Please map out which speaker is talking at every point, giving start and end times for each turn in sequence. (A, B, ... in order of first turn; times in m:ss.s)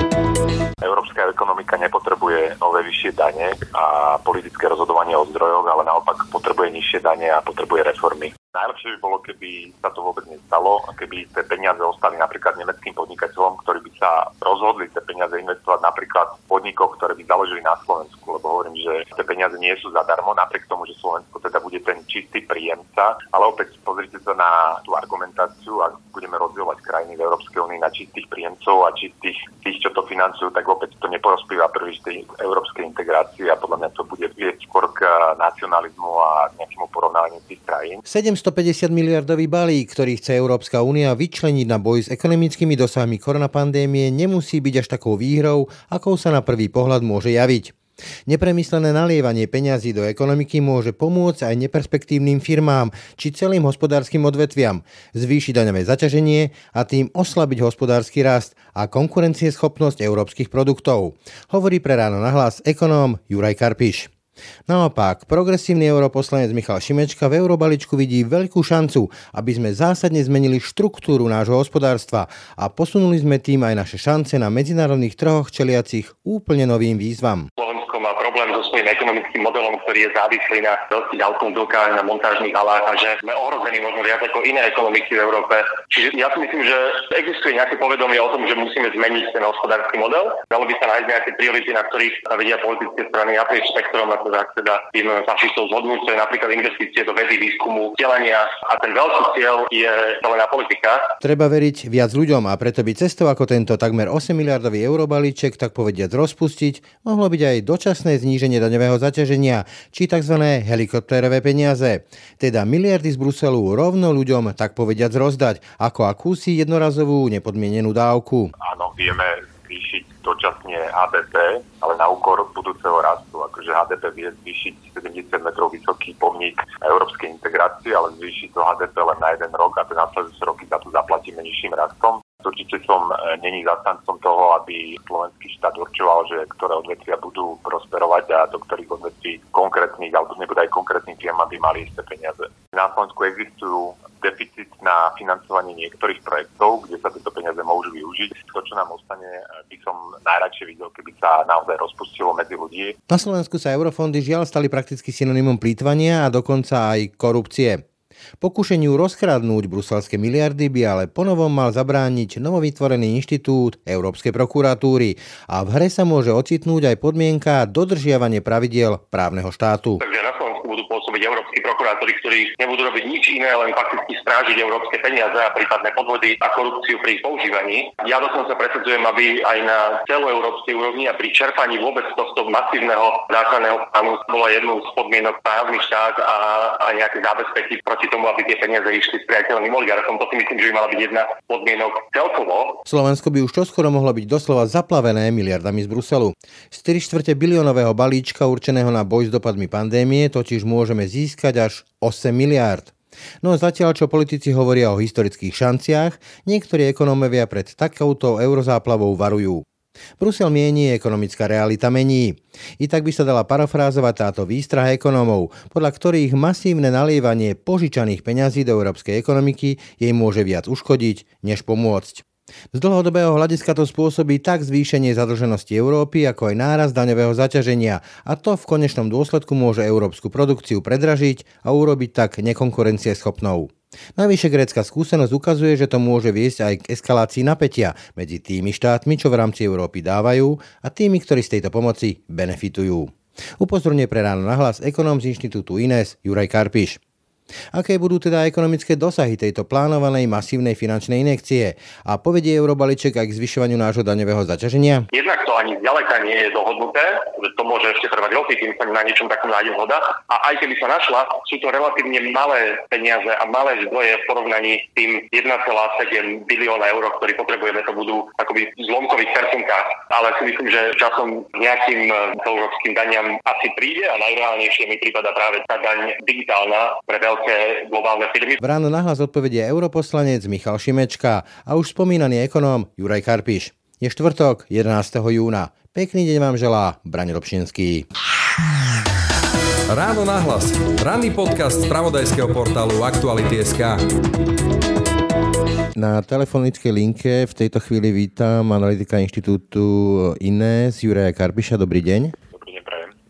0:00.8-0:38.0 A
0:38.1-0:47.8 B
0:48.3-1:04.1 B
1:04.7-1:17.5 B
1:17.6-1:41.1 C
1:41.2-1:58.5 B
1:58.6-2:33.0 A
2:33.1-2:37.8 B
2:38.4-2:50.0 B
2:50.0-3:12.8 C
3:12.9-3:29.6 B
3:30.2-4:07.0 B
4:07.7-4:15.1 B
4:15.1-4:38.6 C
4:38.6-4:48.1 B
4:49.9-4:54.0 D
4:56.0-5:02.4 B
5:02.5-5:03.1 A